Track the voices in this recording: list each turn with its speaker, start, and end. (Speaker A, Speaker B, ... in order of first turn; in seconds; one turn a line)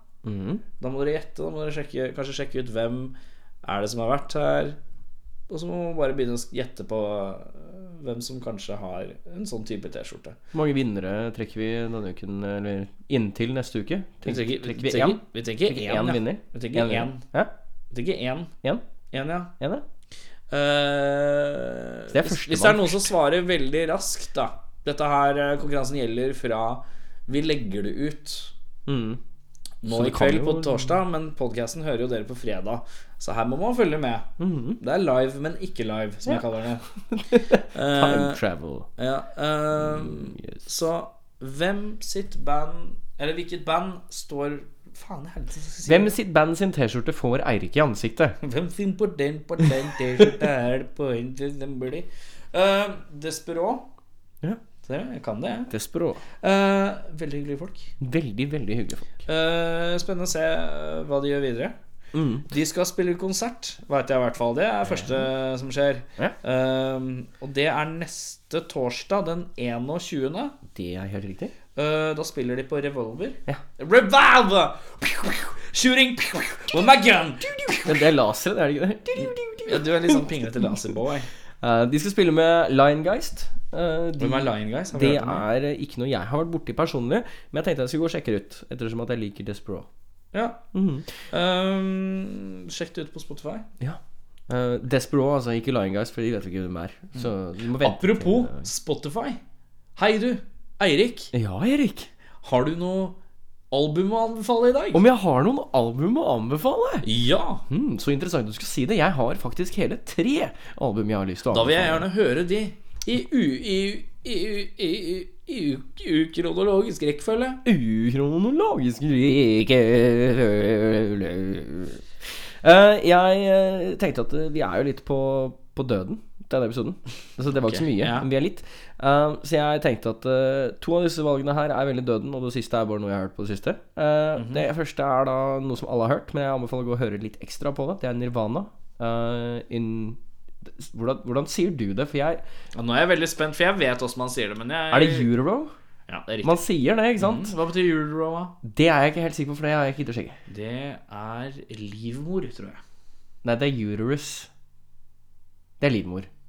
Speaker A: 0.2-0.6
Speaker B: 0.8-4.8
Speaker B: 5.5-10.4
Speaker A: 10.5-17.5
Speaker B: 14.2-17.2
Speaker B: 17.9-18.5
Speaker B: 19.1-19.5
Speaker A: 19.6-19.8
Speaker B: 20.5-28.5
Speaker A: 22.1-23.1
Speaker A: 28.9-29.2
Speaker B: 29.8-34.3
Speaker A: 29.9-31.0
Speaker A: 34.4-34.8
Speaker B: 34.8-36.8
Speaker A: 37.1-38.9
Speaker B: 37.7-38.4
Speaker B: 39.0-46.1
Speaker A: 39.9-40.6
Speaker A: 45.8-48.4
Speaker B: 48.4-53.9
Speaker B: 54.9-55.7
Speaker A: 55.7-56.2
Speaker B: 56.4-57.9
Speaker A: 58.0-59.1
Speaker B: 59.2-61.7
Speaker A: 62.1-62.5
Speaker B: 62.5-70.5
Speaker A: 70.7-71.5
Speaker B: 71.8-78.1
Speaker A: 77.8-80.3
Speaker B: 79.2-81.3
Speaker A: 81.6-89.9
Speaker B: 84.2-85.5
Speaker B: 90.3-90.7
Speaker A: 90.7-91.1
Speaker B: 91.2-93.7
Speaker A: 93.8-98.6
Speaker B: 97.2-99.4
Speaker B: 100.0-101.3
Speaker A: 101.3-102.1
Speaker B: 102.4-103.2
Speaker B: 103.7-105.0
Speaker A: 104.9-107.0
Speaker B: 107.0-107.6
Speaker A: 107.7-112.1
Speaker B: 111.5-117.6
Speaker A: 117.6-122.0
Speaker A: 122.6-142.4
Speaker B: 127.5-128.3
Speaker B: 134.3-134.7
Speaker B: 142.7-145.3
Speaker A: 144.9-145.7
Speaker B: 146.1-146.6
Speaker A: 146.4-147.5
Speaker B: 147.2-148.5
Speaker A: 148.6-150.4
Speaker B: 150.5-152.8
Speaker A: 153.4-154.5
Speaker A: 155.8-156.3